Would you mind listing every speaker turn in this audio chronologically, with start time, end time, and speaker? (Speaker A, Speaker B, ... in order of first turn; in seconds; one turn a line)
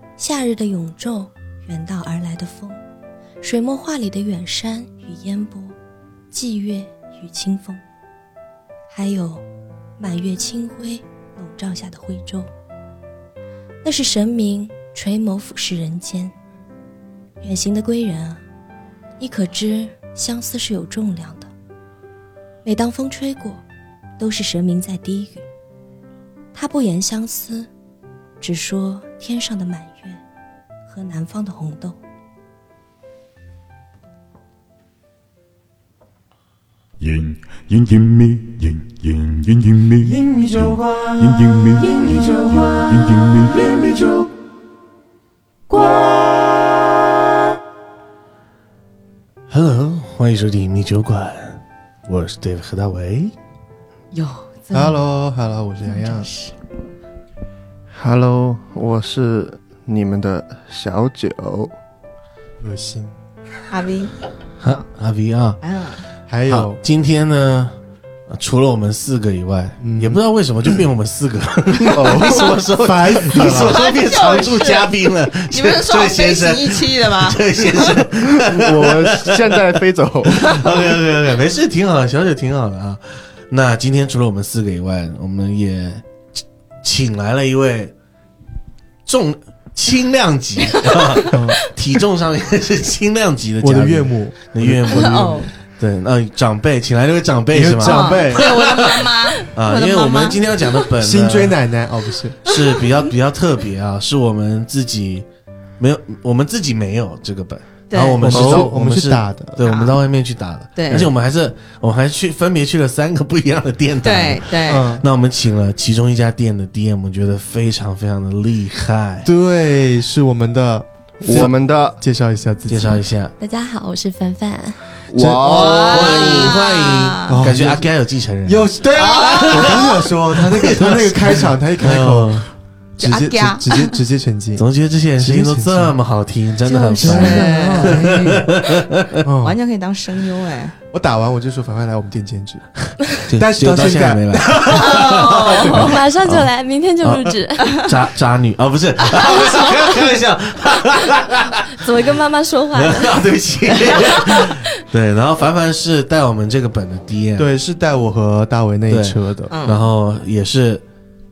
Speaker A: 0.2-2.8
Speaker A: 3.4-5.7
Speaker A: 6.3-7.8
Speaker A: 8.9-9.4
Speaker A: 10.0-12.5
Speaker A: 13.8-16.3
Speaker A: 17.4-18.4
Speaker A: 19.2-21.5
Speaker A: 22.6-23.6
Speaker A: 24.2-25.4
Speaker A: 26.5-27.7
Speaker A: 28.4-30.2
Speaker A: 30.9-31.9
Speaker B: 37.0-43.8
Speaker C: 40.0-44.2
Speaker C: 45.7-46.7
Speaker D: 49.5-53.3
Speaker E: 54.1-55.0
Speaker C: 54.7-56.3
Speaker E: 55.9-56.5
Speaker F: 57.9-61.7
Speaker C: 62.6-63.1
Speaker E: 63.7-64.1
Speaker D: 64.6-65.6
Speaker E: 65.6-66.0
Speaker C: 66.3-66.8
Speaker D: 66.5-67.7
Speaker D: 68.3-79.6
Speaker C: 69.8-70.2
Speaker C: 71.8-73.8
Speaker F: 71.9-72.6
Speaker E: 73.4-74.9
Speaker E: 75.5-78.0
Speaker F: 78.2-80.9
Speaker D: 80.3-86.0
Speaker D: 86.8-87.9
Speaker D: 89.0-101.6
Speaker C: 91.3-91.6
Speaker C: 93.6-95.1
Speaker E: 94.9-95.5
Speaker C: 97.5-98.5
Speaker E: 97.8-100.4
Speaker C: 101.0-102.4
Speaker D: 102.4-105.2
Speaker D: 105.8-119.3
Speaker E: 107.9-108.4
Speaker C: 108.2-109.6
Speaker F: 108.3-108.7
Speaker E: 109.6-110.0
Speaker E: 110.8-111.1
Speaker E: 114.0-114.9
Speaker C: 114.7-115.0
Speaker C: 119.2-123.0
Speaker F: 121.2-122.0
Speaker D: 122.7-123.3
Speaker A: 123.4-124.8
Speaker F: 125.1-126.5
Speaker C: 125.2-125.7
Speaker E: 125.4-127.5
Speaker D: 125.6-132.5
Speaker C: 127.3-127.9
Speaker C: 128.4-134.7
Speaker E: 128.9-129.9
Speaker E: 133.0-133.9
Speaker D: 134.6-139.2
Speaker C: 135.2-135.9
Speaker A: 136.7-137.4
Speaker E: 137.0-138.2
Speaker C: 137.0-138.6
Speaker C: 139.2-139.6
Speaker E: 139.4-140.7
Speaker C: 140.9-142.7
Speaker C: 143.2-145.9
Speaker D: 143.3-146.5
Speaker E: 144.8-145.9
Speaker A: 145.7-147.9
Speaker D: 147.0-151.8
Speaker A: 149.4-149.7
Speaker A: 151.7-154.7
Speaker D: 152.7-157.5
Speaker C: 157.4-159.5
Speaker D: 158.9-160.8
Speaker E: 159.5-159.9